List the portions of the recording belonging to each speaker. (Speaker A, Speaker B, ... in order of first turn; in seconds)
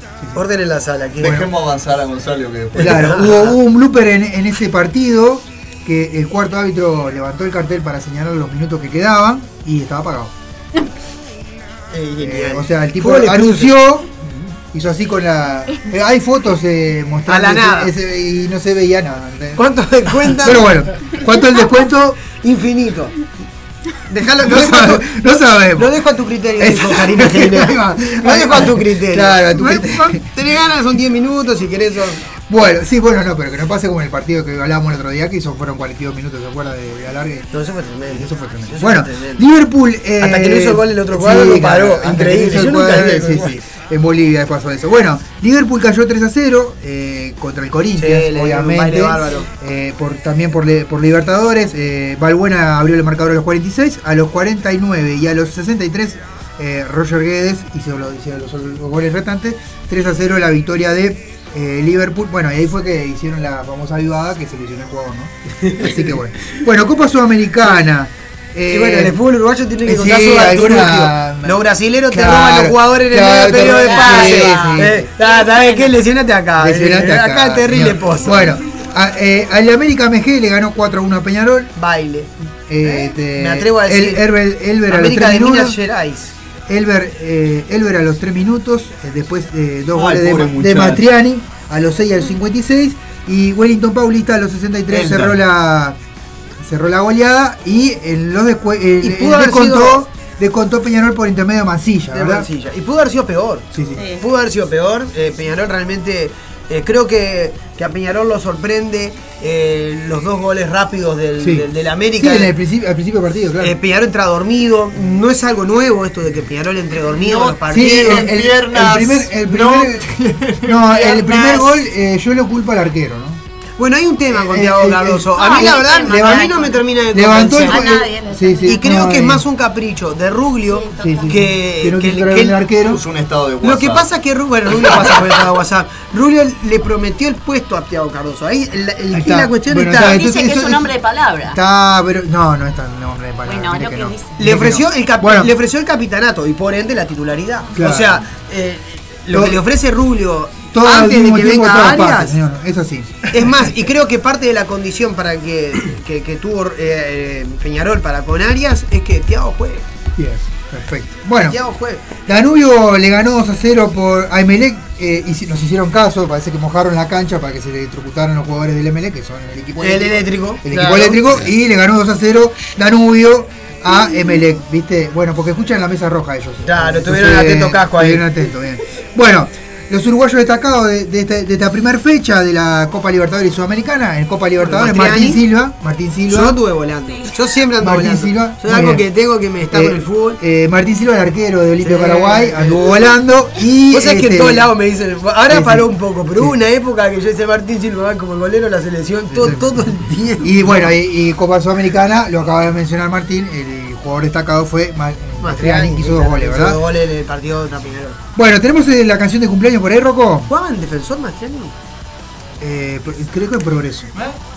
Speaker A: 0.3-1.4, 2.8-3.5, 11.9-13.8, 17.3-17.9, 19.6-20.7, 22.3-23.2, 24.1-25.1, 25.8-32.2, 37.5-39.4, 40.2-43.6, 48.0-49.5, 65.6-66.2, 68.7-78.6, 81.8-82.3, 82.8-84.3, 84.9-86.3, 99.0-100.0, 102.1-112.5, 113.6-118.3, 123.8-128.0, 128.7-132.6, 133.6-140.2, 144.4-152.4, 153.3-159.8, 161.4-162.1, 169.8-171.5, 176.7-178.3, 184.6-185.4, 186.3-190.4, 191.8-192.9, 193.9-200.8, 205.4-208.2, 210.5-211.8
Speaker B: 1.2-3.1, 89.9-91.0, 94.9-95.3, 117.2-121.6, 132.8-134.1, 134.8-135.1
Speaker C: 1.2-1.5, 2.8-10.3, 12.2-19.6, 20.2-22.2, 24.4-26.0, 26.6-30.2, 32.5-37.5, 38.1-69.2, 69.8-75.1, 76.6-81.7, 82.7-85.8, 86.7-96.0, 96.6-102.5, 103.7-104.0, 111.4-113.8, 117.7-120.1, 120.6-123.4, 124.3-126.5, 127.1-129.4, 131.0-133.0, 139.1-140.9, 141.5-145.5, 147.8-148.2, 149.3-149.6, 150.7-153.7, 160.2-161.6, 162.3-186.6, 187.8-189.1, 189.7-194.7, 195.5-196.6, 199.3-199.8, 200.4-206.8, 208.3-210.5, 212.6-214.1
Speaker D: 73.6-76.0, 104.0-104.3, 125.3-126.8, 127.5-129.1, 130.7-131.4, 140.0-141.6, 143.4-144.4